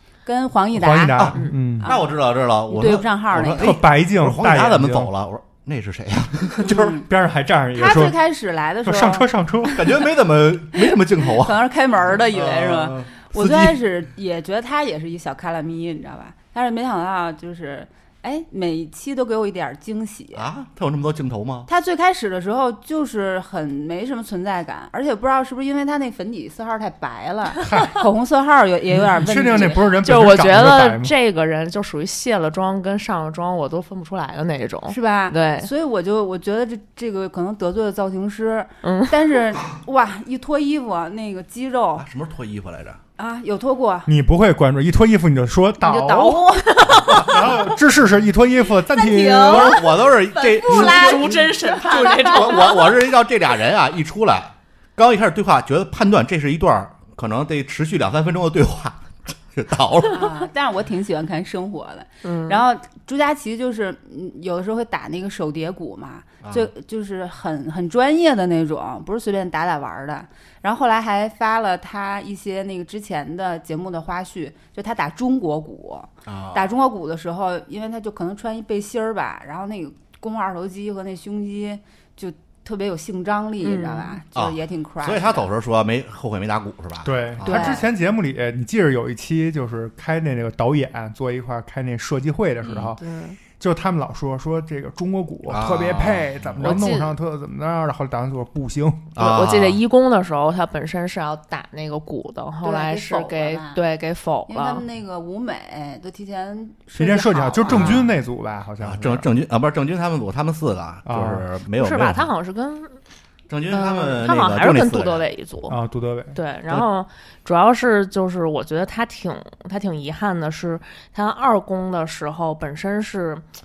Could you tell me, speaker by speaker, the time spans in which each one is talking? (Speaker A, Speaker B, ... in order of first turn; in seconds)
Speaker A: 0.2-2.1, 2.7-3.8, 6.6-7.0, 7.8-9.3, 10.8-20.4, 21.7-29.9, 34.9-42.0, 43.2-44.1, 45.8-47.4, 48.9-52.7, 60.1-85.5, 87.4-87.8, 102.6-103.8, 104.5-108.0
Speaker B: 0.7-1.9, 3.5-5.1, 7.0-8.2, 8.8-9.9, 27.6-27.9, 28.9-31.1, 44.1-46.5, 47.1-49.8, 87.0-93.0, 93.6-99.1, 106.9-109.3, 111.0-111.4, 115.7-116.3
Speaker C: 1.1-7.0, 9.7-13.8, 20.3-21.7, 42.0-43.0, 47.1-47.3, 49.4-60.5, 66.4-66.7, 76.2-76.7, 84.3-87.8, 92.6-93.0, 95.5-96.8, 99.1-99.8, 107.7-108.1, 108.8-112.3, 113.5-115.2
Speaker D: 30.0-35.7, 38.8-39.1, 46.6-47.1, 50.6-52.8, 62.2-62.6, 83.6-84.2, 93.0-93.4, 96.6-97.1, 99.2-104.8, 111.8-113.0, 113.7-115.8, 116.3-123.4